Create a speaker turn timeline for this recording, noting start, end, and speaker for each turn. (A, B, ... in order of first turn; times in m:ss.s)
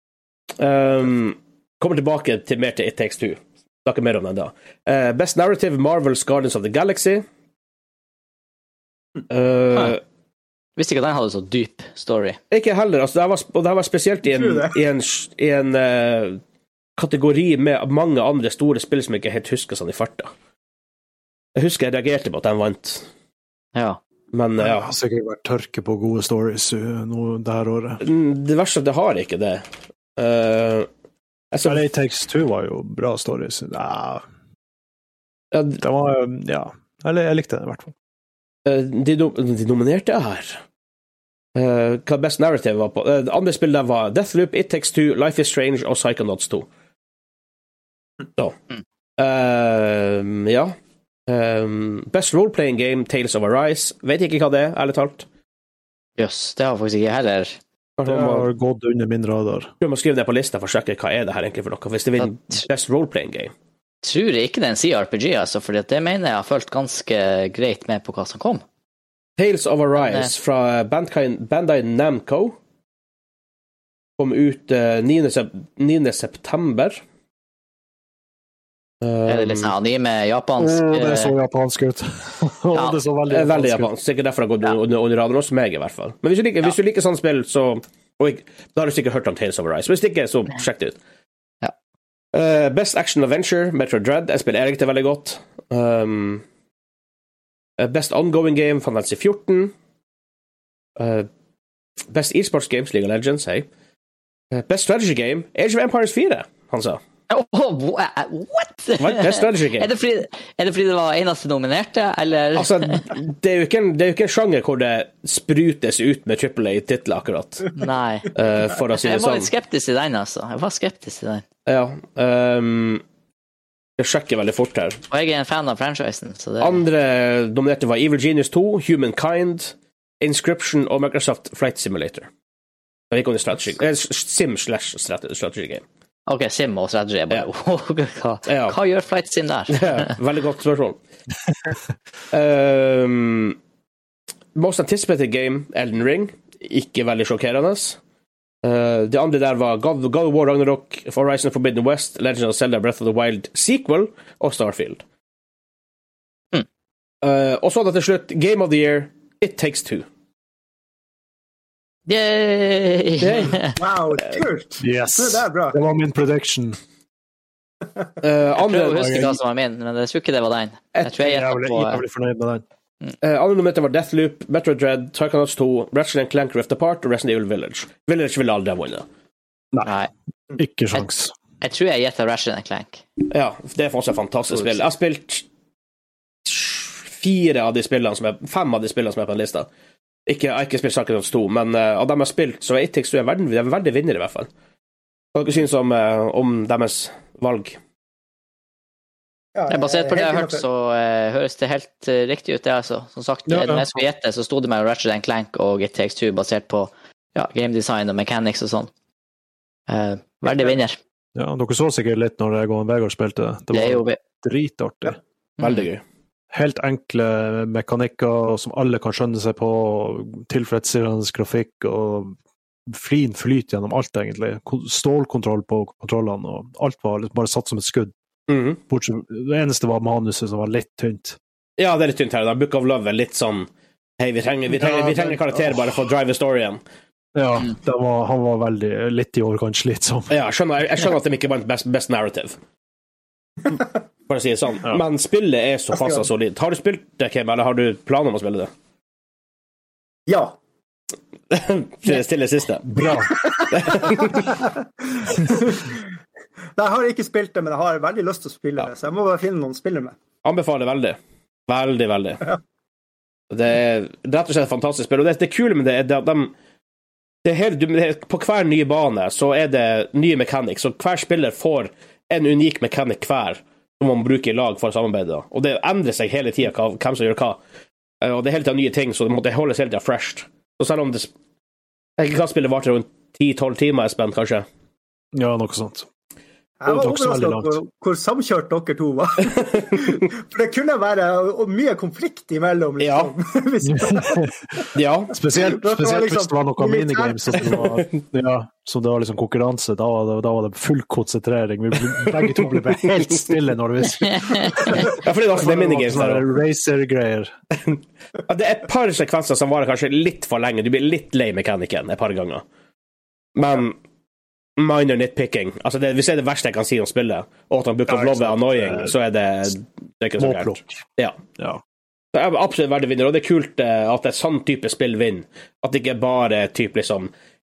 0:00.6-0:07.2 A
0:09.3-0:10.0 A
0:10.8-0:12.4 B
0:12.5-0:16.4 A
0:14.3-0:14.7 C
0:17.0-0:20.3 A
0:21.6-0:23.1 A
0:24.3-0:24.9 A
0:24.6-0:28.0 D
0:28.0-0:30.9 A
0:31.5-0:31.8 A
0:31.6-0:34.2 D
0:35.5-0:35.8 A
0:35.8-0:37.9 D
0:38.6-0:40.6 A
0:41.5-0:46.7 A
0:49.2-0:55.2 A
0:56.2-0:57.6 B
0:58.0-0:58.5 A
0:58.0-0:59.7 D
0:59.8-1:03.5 A
1:04.0-1:08.6 B
1:09.4-1:12.6 A
1:14.2-1:17.0 A
1:19.0-1:19.7 A
1:19.3-1:21.4 B
1:20.6-1:23.9 D
1:23.3-1:31.0 A
1:32.3-1:36.4 A
1:37.8-1:39.7 A
1:41.0-1:41.3 A
1:42.1-1:43.7 A
1:44.5-1:47.0 A
1:47.3-1:53.0 B
1:49.0-1:49.9 A
1:52.6-1:59.5 A
1:57.7-1:58.4 B
1:58.9-2:01.4 B
2:01.6-2:03.0 A
2:04.0-2:05.0 A
2:05.1-2:06.8 B
2:06.6-2:12.3 A
2:13.1-2:15.8 A
2:16.3-2:20.1 B
2:18.4-2:18.8 A
2:19.7-2:21.0 A
2:22.3-2:23.6 A
2:24.5-2:28.0 A
2:28.6-2:35.0 A
2:37.2-2:40.1 A
2:42.1-2:43.8 B
2:43.2-2:43.7 A
2:43.8-2:45.8 C
2:44.8-2:46.8 D
2:48.2-2:49.4 A
2:48.6-2:52.0 B
2:51.0-2:52.6 D
2:53.2-2:59.0 A
2:59.8-3:00.1 B
3:00.6-3:01.3 D
3:01.6-3:03.0 B
3:03.3-3:05.4 A
3:06.4-3:09.7 A
3:10.3-3:14.5 A
3:15.3-3:17.8 A
3:19.5-3:20.6 C
3:19.7-3:28.9 B
3:23.5-3:23.8 A
3:29.9-3:31.0 B
3:31.4-3:35.2 D
3:33.7-3:34.2 B
3:35.6-3:35.9 B
3:35.6-3:36.0 A
3:36.5-3:42.4 D
3:42.9-3:48.1 D
3:48.5-3:48.8 A
3:48.9-3:51.4 D
3:51.8-3:56.8 A
3:54.8-3:55.9 D
3:57.4-4:00.3 D
4:00.3-4:02.6 A
4:04.3-4:08.7 A
4:10.3-4:10.6 C
4:11.5-4:13.1 A
4:12.8-4:13.3 D
4:13.3-4:16.0 C
4:13.7-4:14.5 A
4:16.8-4:20.2 C
4:20.4-4:22.4 A
4:23.5-4:26.5 A
4:27.4-4:37.6 A
4:38.2-4:41.3 A
4:42.2-4:44.6 A
4:45.3-4:46.1 D
4:46.8-4:54.5 C
4:46.9-4:47.8 D
4:53.0-4:53.3 A
4:53.8-4:54.5 D
4:54.9-4:55.4 A
4:55.3-5:07.5 D
4:55.6-4:57.8 C
5:04.3-5:04.9 B
5:04.9-5:06.5 A
5:07.8-5:12.6 A
5:13.5-5:14.0 A
5:14.8-5:21.4 A
5:18.1-5:19.1 D
5:20.4-5:21.0 D
5:22.3-5:27.3 A